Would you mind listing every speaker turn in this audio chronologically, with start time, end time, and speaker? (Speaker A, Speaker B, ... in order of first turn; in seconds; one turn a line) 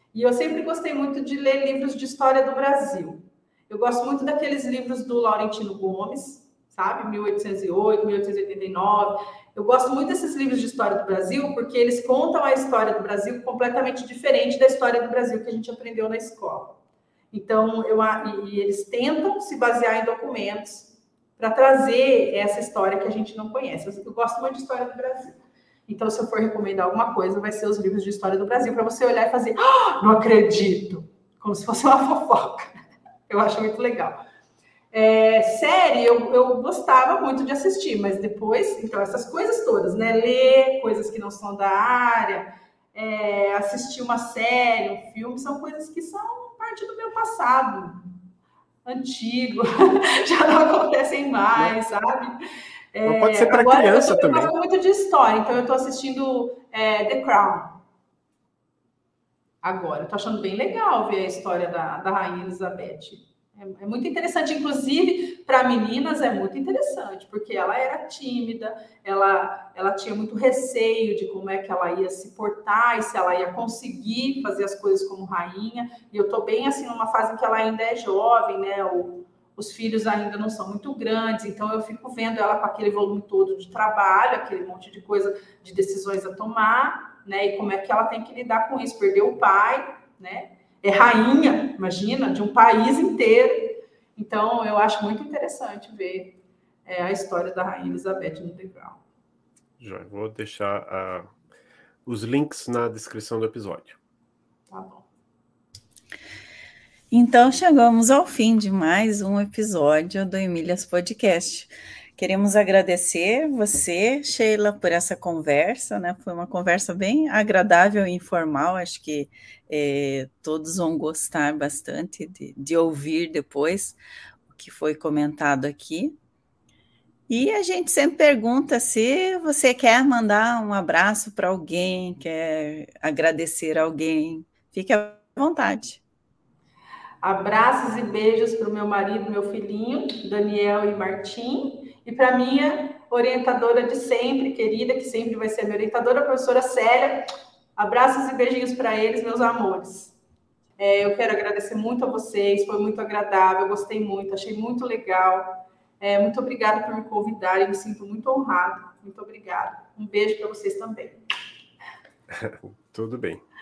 Speaker A: 0.1-16.8
Speaker A: 17.3-32.7
Speaker A: 33.3-34.2
Speaker A: 34.9-48.1
Speaker A: 48.9-52.4
Speaker A: 52.9-57.8
Speaker B: 53.1-54.5
Speaker A: 59.6-99.0
Speaker B: 99.8-101.3
Speaker B: 102.1-104.0
Speaker A: 104.7-105.1
Speaker C: 107.1-124.0
Speaker C: 124.5-126.2
Speaker C: 127.3-136.0
Speaker A: 137.2-150.1
Speaker A: 150.8-161.2
Speaker B: 162.3-163.4